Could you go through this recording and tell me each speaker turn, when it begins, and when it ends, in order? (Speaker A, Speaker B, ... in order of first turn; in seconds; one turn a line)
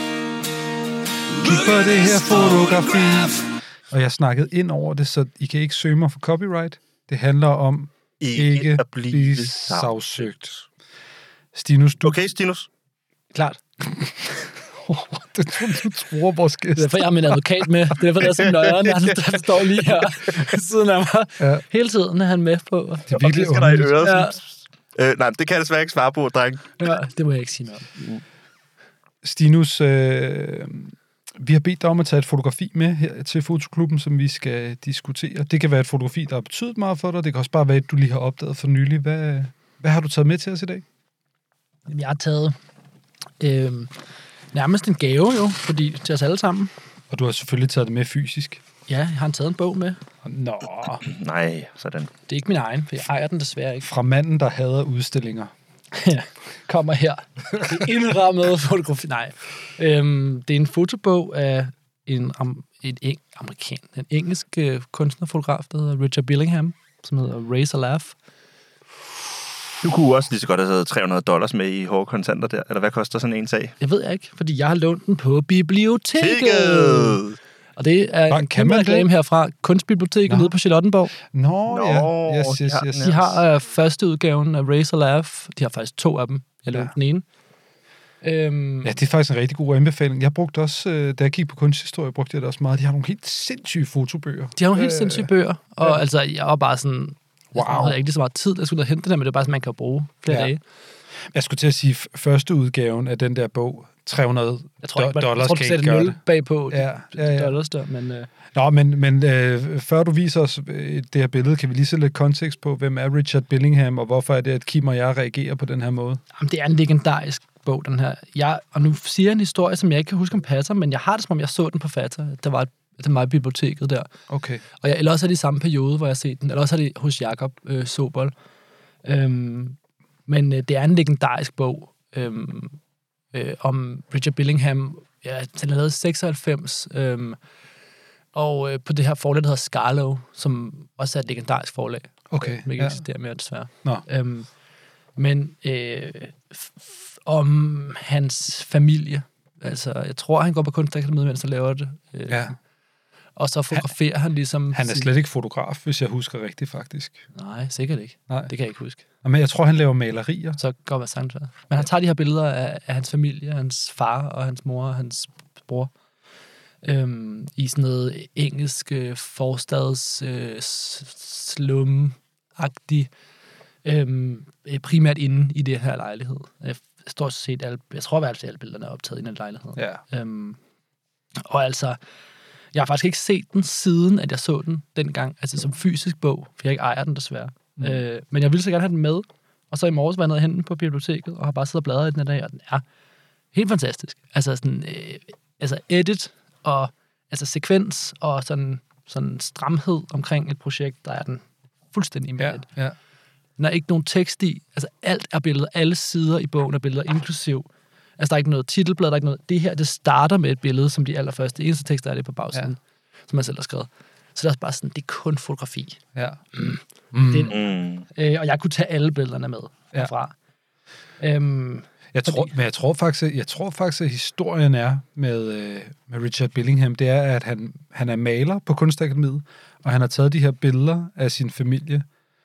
Speaker A: 1.4-10.5
Speaker B: 2.2-2.6
Speaker B: 8.2-10.4
Speaker A: 11.5-12.2
Speaker B: 12.0-12.7
Speaker C: 13.3-13.6
Speaker A: 14.8-17.4
Speaker C: 16.8-24.4
Speaker A: 21.4-21.6
Speaker A: 23.1-24.1
Speaker B: 23.1-26.8
Speaker C: 26.8-27.9
Speaker A: 29.2-40.8
Speaker C: 41.9-42.5
Speaker C: 43.4-43.9
Speaker C: 44.5-46.7
Speaker A: 47.1-48.6
Speaker C: 48.9-50.0
Speaker A: 50.2-51.0
Speaker B: 51.0-52.1
Speaker C: 52.3-53.9
Speaker A: 53.8-55.5
Speaker C: 55.9-68.2
Speaker B: 69.8-73.7
Speaker C: 73.8-77.2
Speaker B: 76.2-77.4
Speaker C: 77.8-81.1
Speaker A: 78.3-79.1
Speaker A: 80.3-80.5
Speaker A: 81.1-83.4
Speaker B: 81.7-83.1
Speaker C: 83.0-87.2
Speaker C: 88.2-88.9
Speaker A: 88.8-95.3
Speaker C: 94.5-100.6
Speaker A: 97.5-98.0
Speaker A: 100.3-100.5
Speaker A: 101.3-106.2
Speaker C: 104.8-108.3
Speaker A: 106.7-107.5
Speaker A: 108.5-116.2
Speaker C: 116.3-124.1
Speaker A: 124.3-124.6
Speaker C: 124.8-128.3
Speaker C: 129.0-132.8
Speaker C: 133.3-137.4
Speaker C: 138.3-144.5
Speaker A: 142.3-143.0
Speaker C: 145.2-152.5
Speaker A: 152.3-152.6
Speaker C: 153.3-155.1
Speaker A: 154.7-157.2
Speaker C: 157.3-159.0
Speaker A: 159.2-160.6
Speaker C: 160.6-165.9
Speaker C: 166.8-173.1
Speaker C: 173.8-180.6
Speaker A: 179.8-180.0
Speaker C: 181.4-182.0
Speaker C: 182.7-192.8
Speaker A: 187.8-188.0
Speaker C: 193.5-202.7
Speaker A: 202.4-202.9
Speaker C: 203.6-207.7
Speaker C: 208.2-216.0
Speaker A: 216.1-216.4
Speaker C: 216.5-217.6
Speaker A: 217.1-217.5
Speaker B: 217.5-218.1
Speaker C: 218.1-220.3
Speaker C: 221.2-222.5
Speaker A: 222.1-232.1